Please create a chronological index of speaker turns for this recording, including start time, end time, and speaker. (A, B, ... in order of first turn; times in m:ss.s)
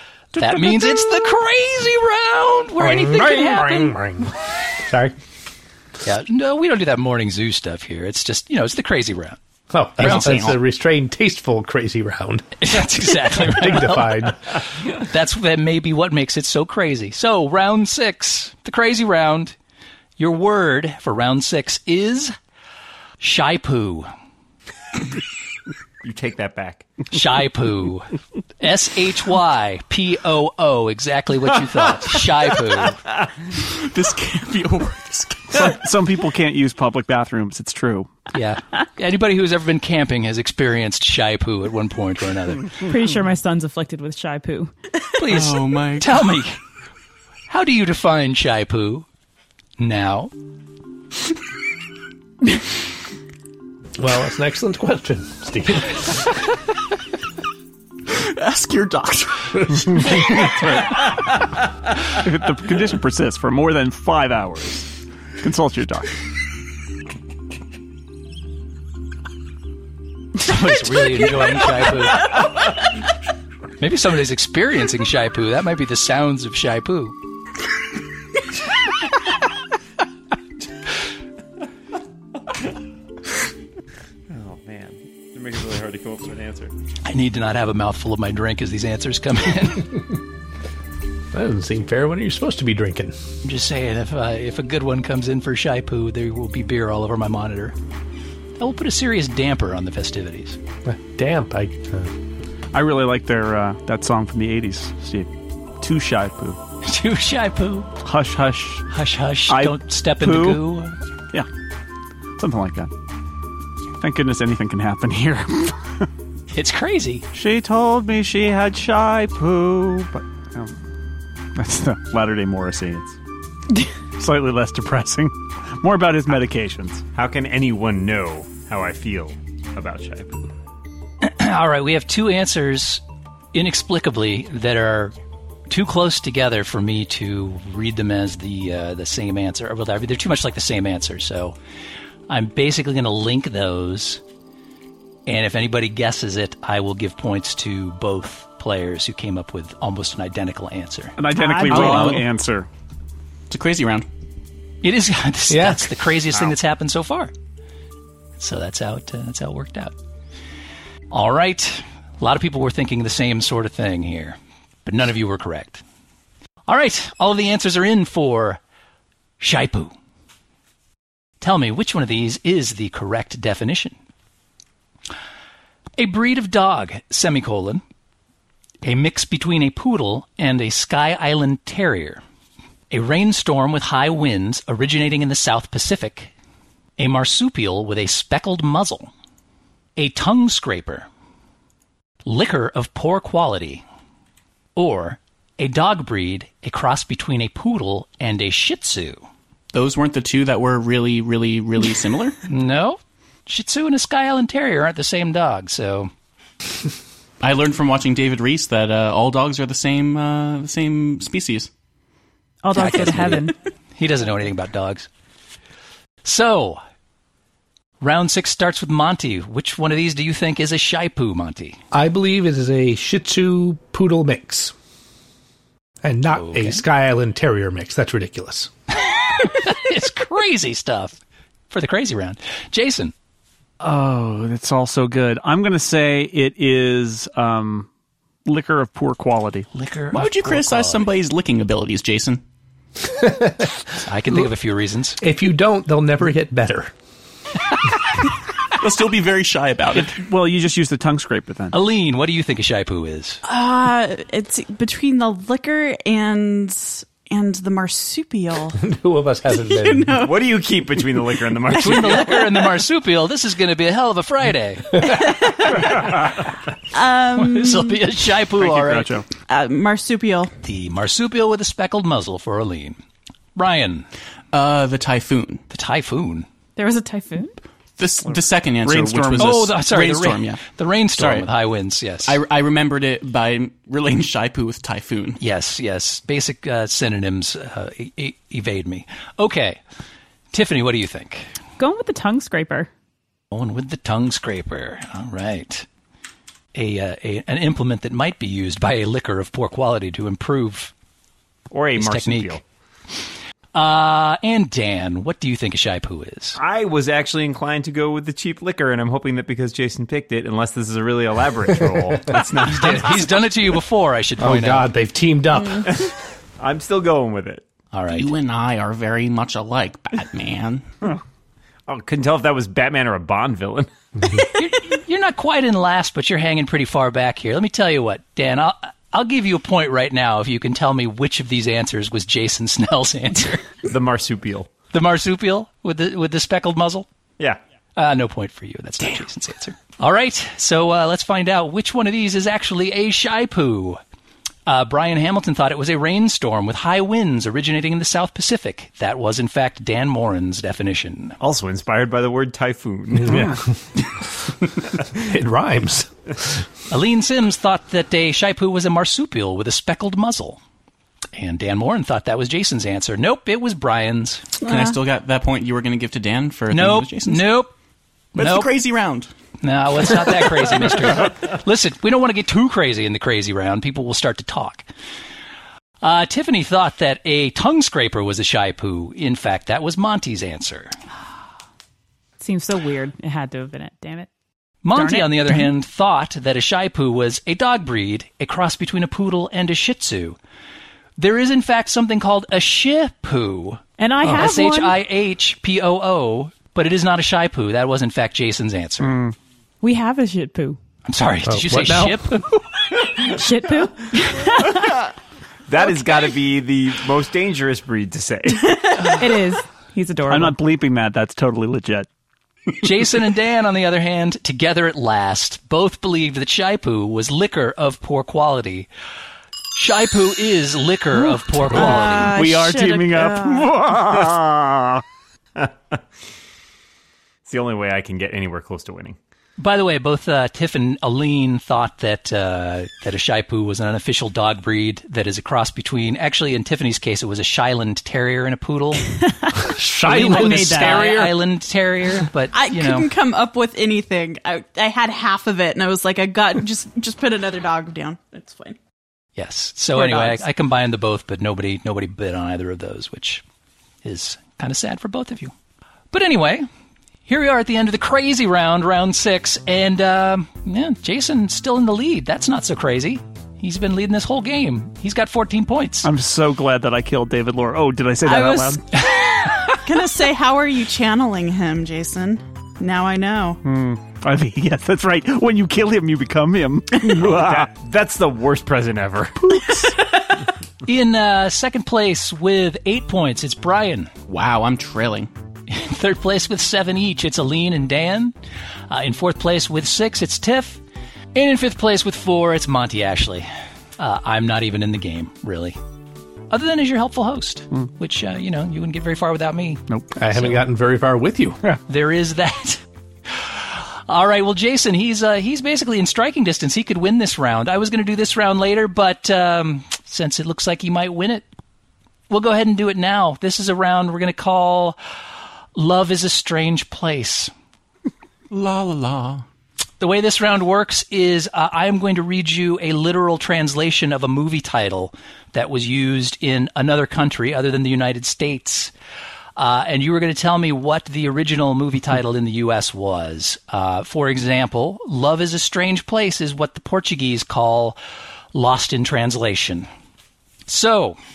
0:00.4-0:04.0 A
0:02.8-0:05.2 B
0:06.0-0:09.4 A
0:09.7-0:14.5 B
0:10.0-0:10.6 C
0:10.0-0:10.5 A
0:12.6-0:19.6 A
0:20.2-0:22.4 A
0:23.2-0:24.1 A
0:26.0-0:26.9 D
0:27.1-0:33.0 A
0:33.6-0:35.8 C
0:35.5-0:38.1 E
0:38.3-0:42.8 A
0:42.8-0:44.7 F
0:45.2-0:46.6 A
0:45.2-0:46.4 C
0:47.5-0:49.1 A
0:49.8-0:50.3 A
0:54.0-0:56.3 B
0:58.1-1:01.0 C
1:02.1-1:04.9 E
1:05.4-1:06.2 E
1:10.4-1:12.4 A
1:13.8-1:17.2 A
1:24.3-1:26.7 D
1:27.0-1:30.1 A
1:31.3-1:33.2 B
1:33.4-1:37.8 A
1:38.6-1:40.6 A
1:40.9-1:42.1 B
1:42.7-1:45.3 E
1:45.8-1:46.6 E
1:46.8-1:47.9 A
1:48.0-1:48.9 E
1:48.9-1:51.0 A
1:49.5-1:50.6 E
1:52.4-1:52.9 E
1:54.0-1:56.1 E
1:56.5-1:57.2 A
1:57.3-2:00.7 E
2:01.6-2:03.2 E
2:04.2-2:07.0 E
2:07.2-2:10.5 D
2:11.2-2:13.0 A
2:13.5-2:15.1 A
2:15.7-2:21.6 A
2:22.3-2:24.2 A
2:25.3-2:32.2 A
2:31.2-2:32.7 E
2:31.4-2:32.0 F
2:31.7-2:32.2 C
2:33.5-2:34.1 C
2:34.8-2:37.3 A
2:35.5-2:36.0 B
2:38.4-2:39.9 A
2:41.1-2:45.8 A
2:46.7-2:48.6 A
2:49.4-2:49.9 A
2:51.4-2:54.0 A
2:56.0-2:57.8 A
2:58.8-3:02.2 A
3:02.9-3:06.3 A
3:07.0-3:09.1 A
3:10.0-3:11.1 A
3:12.2-3:13.8 A
3:14.8-3:19.2 A
3:19.7-3:22.4 C
3:22.5-3:26.1 A
3:27.4-3:31.7 C
3:32.6-3:33.6 F
3:32.7-3:35.1 A
3:36.2-3:36.8 A
3:38.0-3:41.8 A
3:41.9-3:44.7 B
3:46.0-3:48.7 B
3:46.3-3:46.8 A
3:49.1-3:51.2 A
3:51.7-3:53.1 A
3:53.8-3:57.9 E
3:58.4-3:59.7 E
3:59.7-4:01.1 A
4:00.1-4:02.4 C
4:03.1-4:03.8 B
4:04.0-4:05.2 A
4:05.2-4:06.9 B
4:08.8-4:10.2 C
4:10.0-4:11.8 E
4:11.7-4:13.4 A
4:13.4-4:18.8 G
4:18.8-4:20.3 B
4:19.5-4:20.4 G
4:20.2-4:22.6 D
4:21.7-4:25.2 A
4:25.1-4:26.1 G
4:26.9-4:28.0 G
4:27.4-4:29.2 A
4:28.6-4:29.2 E
4:29.5-4:30.5 G
4:30.6-4:33.0 A
4:33.6-4:34.1 A
4:34.5-4:35.6 C
4:35.7-4:36.5 A
4:36.8-4:37.6 F
4:38.0-4:41.5 C
4:38.8-4:39.7 E
4:39.4-4:42.4 A
4:42.2-4:45.4 C
4:45.4-4:49.8 A
4:50.5-4:51.5 A
4:51.8-4:52.9 F
4:53.5-4:55.9 A
4:56.7-5:00.9 A
5:01.7-5:02.6 D
5:02.0-5:02.6 A
5:03.8-5:06.6 A
5:06.6-5:13.4 D
5:12.6-5:14.9 A
5:14.4-5:16.1 B
5:15.9-5:17.7 D
5:17.9-5:18.3 A
5:18.1-5:20.9 C
5:21.9-5:23.9 D
5:24.6-5:33.6 A
5:33.8-5:34.7 D
5:34.9-5:37.1 A
5:38.0-5:44.0 A
5:44.7-5:51.4 A
5:51.4-5:53.6 D
5:53.2-5:53.6 B
5:55.1-5:56.5 B
5:56.9-6:00.6 A
6:01.4-6:04.5 A
6:04.6-6:05.0 G
6:04.6-6:07.6 C
6:06.7-6:07.7 A
6:08.4-6:08.7 A
6:08.4-6:09.3 C
6:09.6-6:14.9 A
6:16.0-6:21.0 A
6:22.4-6:24.3 F
6:24.8-6:30.4 A
6:24.9-6:25.7 F
6:31.2-6:39.2 A
6:34.0-6:35.0 F
6:39.1-6:39.3 E
6:39.8-6:40.8 F
6:41.0-6:42.5 A
6:41.4-6:42.5 B
6:43.2-6:45.0 F
6:45.7-6:49.0 D
6:49.0-6:50.6 F
6:50.3-6:52.1 E
6:52.8-6:58.9 A
6:59.8-7:02.4 A
7:01.6-7:03.8 G
7:01.8-7:04.7 E
7:04.2-7:04.6 D
7:05.6-7:06.0 D
7:07.5-7:09.2 D
7:09.6-7:19.1 A
7:19.6-7:21.3 B
7:20.1-7:23.1 A
7:20.2-7:21.0 F
7:22.5-7:28.8 G
7:29.4-7:33.4 A
7:34.0-7:35.5 A
7:36.1-7:36.7 A
7:37.3-7:46.1 A
7:46.0-7:48.8 E
7:48.2-7:53.6 G
7:49.1-7:49.8 A
7:53.6-7:57.7 E
7:57.0-7:59.8 D
8:00.8-8:04.1 A
8:04.3-8:05.3 C
8:05.7-8:08.4 A
8:08.9-8:10.8 A
8:11.4-8:15.8 A
8:16.5-8:19.8 A
8:20.2-8:21.6 B
8:20.3-8:20.6 A
8:21.9-8:31.4 A
8:32.3-8:35.0 A
8:35.8-8:37.5 A
8:38.5-8:39.5 C
8:40.0-8:48.9 A
8:49.6-8:58.0 A
8:58.5-8:59.9 A
9:00.7-9:01.2 A